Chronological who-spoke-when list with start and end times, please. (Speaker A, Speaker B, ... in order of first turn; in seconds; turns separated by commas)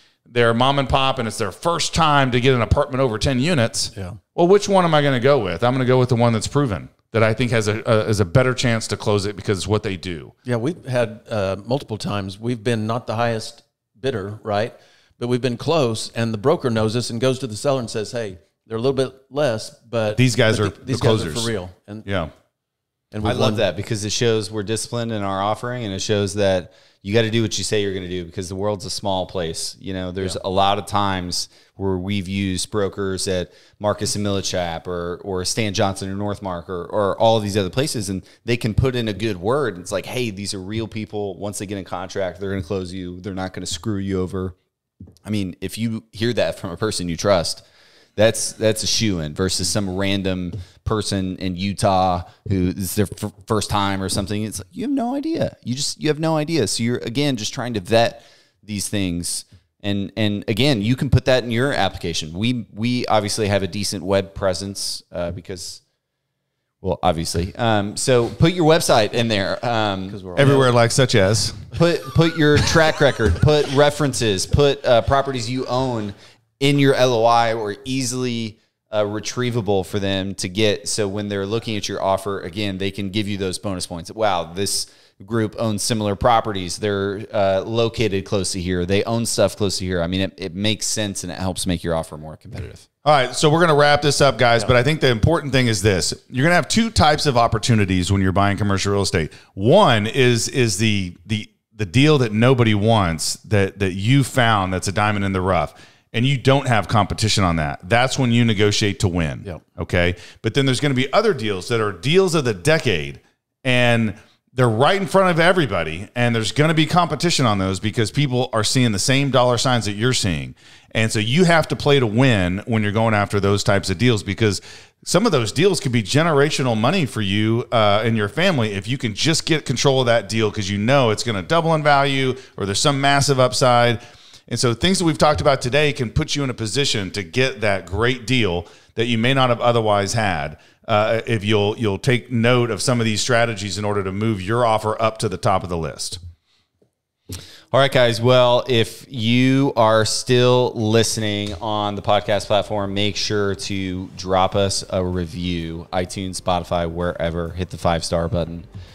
Speaker A: 0.3-10.3, Speaker B: 10.4-22.1, Speaker A: 20.1-21.5, Speaker A: 22.1-22.3, Speaker B: 23.1-23.6, Speaker C: 23.2-44.5, Speaker C: 45.2-47.6, Speaker C: 48.1-65.8, Speaker C: 66.8-70.6, Speaker B: 70.1-70.7, Speaker A: 70.3-71.7, Speaker C: 71.7-92.8, Speaker A: 93.0-146.2, Speaker C: 147.7-158.7